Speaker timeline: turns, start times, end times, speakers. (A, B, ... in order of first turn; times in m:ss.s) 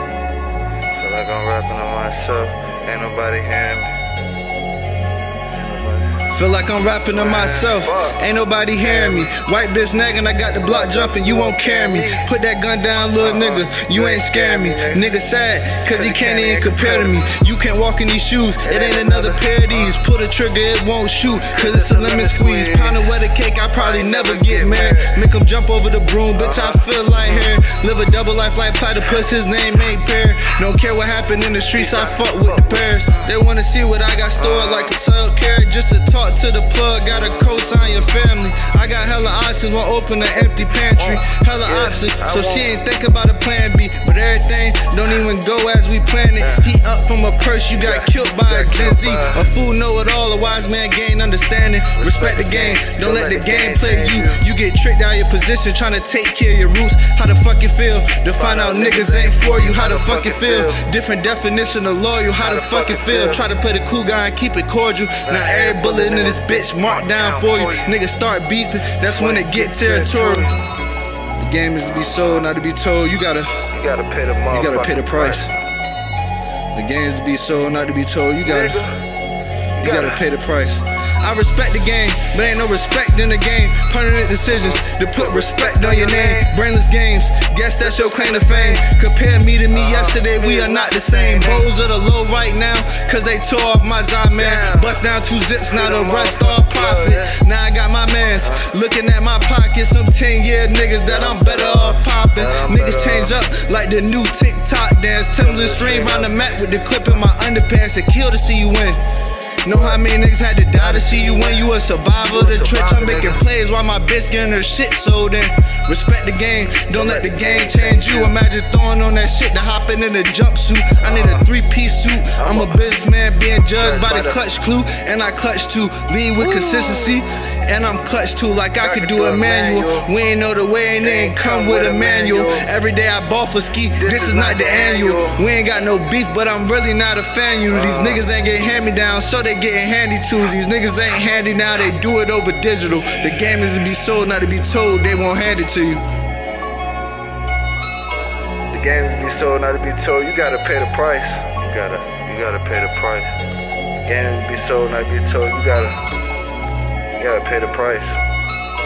0:00.9-0:04.0 A
0:05.5-0:06.2 A
0:06.3-1:10.5 B
0:07.1-0:09.4 A
0:10.6-0:12.3 A
0:13.2-0:15.1 A
0:15.8-0:17.2 A
0:18.6-0:20.0 A
0:21.5-0:23.1 A
0:23.7-0:25.3 A
0:26.4-0:27.5 A
0:31.7-0:33.3 A
0:34.3-0:34.9 A
0:41.0-0:42.8 A
0:46.4-0:46.7 A
0:47.8-0:49.5 A
0:52.0-0:54.5 A
0:58.4-1:00.8 A
1:02.4-1:03.5 A
1:05.2-1:08.0 A
1:09.1-1:10.6 A
1:11.4-1:13.7 B
1:11.8-1:12.5 A
1:13.7-1:15.6 A
1:14.5-1:15.5 B
1:16.7-1:18.9 B
1:18.4-1:19.0 A
1:19.8-1:20.2 A
1:19.8-1:49.0 B
1:24.5-1:26.5 A
1:27.8-1:29.0 A
1:29.7-1:31.7 A
1:34.3-1:35.1 A
1:35.7-1:37.4 A
1:38.4-1:38.7 A
1:41.0-1:43.4 A
1:45.4-1:46.4 A
1:47.0-1:47.2 A
1:49.6-2:26.0 B
1:49.7-1:50.0 A
1:50.7-1:53.5 A
1:56.9-1:58.4 A
2:01.0-2:01.5 A
2:02.4-2:03.0 A
2:03.8-2:04.4 A
2:06.4-2:07.2 A
2:08.8-2:10.1 A
2:11.0-2:12.7 A
2:14.0-2:15.4 A
2:17.7-2:18.2 A
2:28.7-2:33.4 A
2:34.1-2:36.0 A
2:37.2-2:38.2 A